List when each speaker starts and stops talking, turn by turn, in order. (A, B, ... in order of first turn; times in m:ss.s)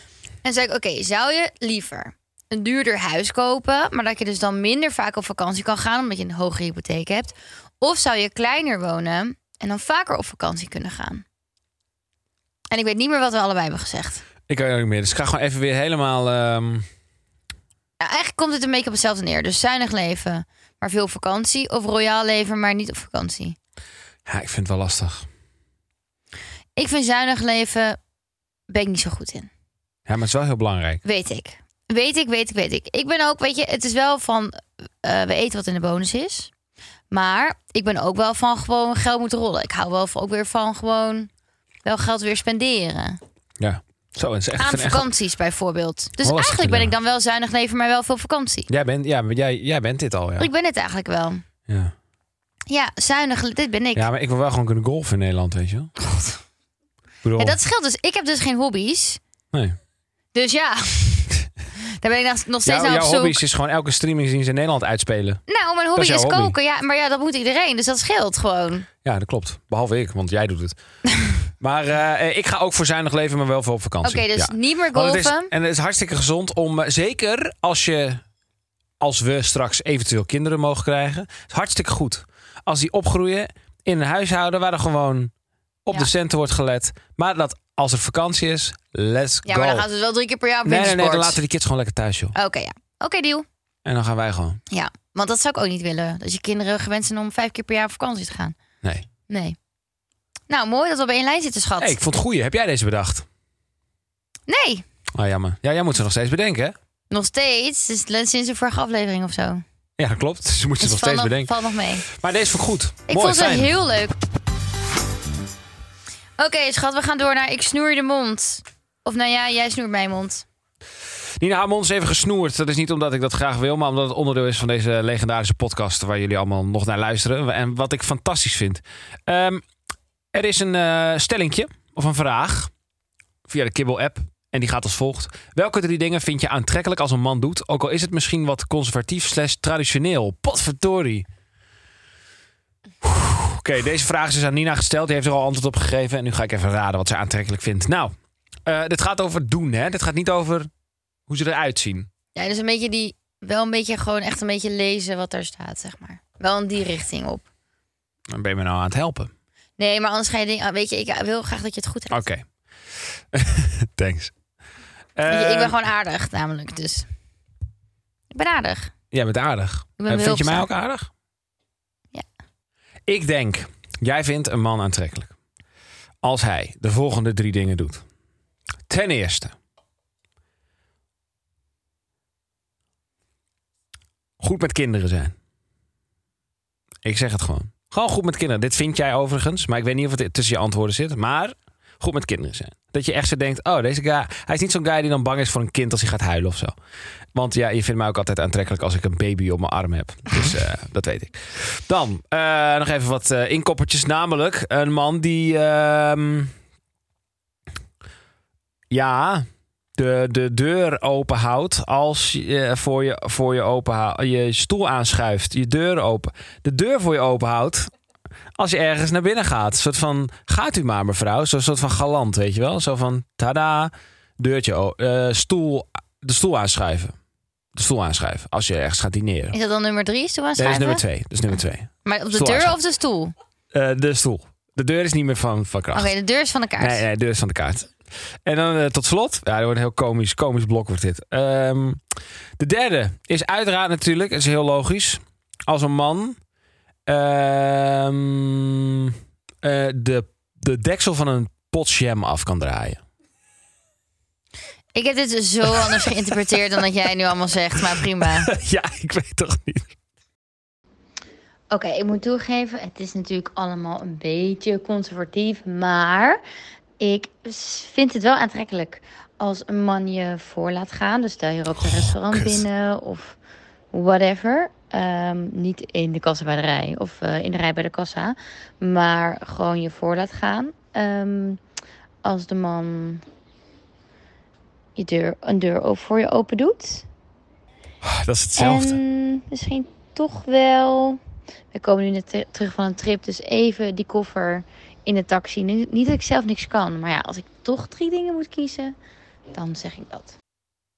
0:00.4-0:11.2 A
0:12.7-0:14.2 A
0:14.5-0:16.8 B
0:18.0-0:23.6 A
0:24.3-0:25.2 B
0:26.8-0:28.0 A
0:28.7-0:29.5 A
0:30.1-0:31.0 B
0:31.0-0:36.5 A
0:37.1-0:41.3 A
0:41.8-0:43.2 A
0:43.6-0:45.1 B
0:44.6-0:48.7 A
0:46.2-0:46.9 B
0:48.7-0:50.5 B
0:50.4-0:51.4 A
0:51.7-0:51.9 B
0:52.7-0:54.1 A
0:53.9-0:55.9 B
0:56.0-0:56.4 A
0:57.2-0:57.6 B
0:57.4-0:59.2 A
1:00.3-1:01.4 A
1:02.0-1:03.4 A
1:02.6-1:05.4 B
1:05.5-1:08.9 A
1:06.0-1:06.5 B
1:09.0-1:18.2 B
1:14.0-1:15.5 A
1:19.0-1:25.3 B
1:25.8-1:29.8 B
1:29.4-1:31.4 A
1:30.6-1:32.3 B
1:32.3-1:33.4 A
1:33.8-1:34.6 B
1:34.7-1:38.6 A
1:39.3-1:39.6 A
1:40.5-1:42.0 A
1:41.8-1:43.2 B
1:44.5-1:44.8 A
1:45.1-1:46.7 B
1:47.1-1:49.6 A
1:50.0-1:51.5 B
1:50.8-1:52.0 A
1:52.0-1:53.7 B
1:53.1-1:54.1 A
1:56.4-2:00.4 A
2:01.4-2:09.6 B
2:10.3-2:12.7 B
2:13.5-2:21.2 B
2:23.0-2:28.1 B
2:28.6-2:30.7 B
2:31.3-2:32.1 B
2:32.3-2:37.4 A
2:38.3-2:39.3 B
2:39.8-2:42.2 A
2:42.1-2:42.4 B
2:43.3-2:44.3 B
2:45.2-2:45.7 B
2:45.3-2:47.1 A
2:48.3-2:48.9 A
2:49.1-2:51.1 B
2:50.0-2:50.7 A
2:53.1-2:55.3 B
2:56.2-2:58.0 B
2:58.9-2:59.5 B
3:04.4-3:05.3 B
3:07.0-3:16.7 B
3:17.3-3:26.5 B
3:28.9-3:29.4 B
3:30.0-3:37.9 B
3:38.6-3:47.1 B
3:47.7-3:49.6 B
3:49.5-3:51.0 A
3:50.6-3:52.7 B
3:52.0-3:53.3 A
3:53.7-3:56.1 B
3:55.9-3:57.0 A
3:56.8-3:57.9 B
3:58.4-4:02.0 B
4:02.6-4:06.4 B
4:07.0-4:13.0 B
4:14.9-4:18.5 A
4:15.7-4:16.3 B
4:17.8-4:19.9 B
4:21.7-4:26.4 A
4:27.0-4:33.4 A
4:31.8-4:32.6 B
4:33.9-4:41.6 A
4:42.2-4:43.2 A
4:45.0-4:47.0 A
4:48.0-4:49.0 B
4:48.6-4:51.2 A
4:51.7-4:58.9 A
4:59.5-5:00.4 A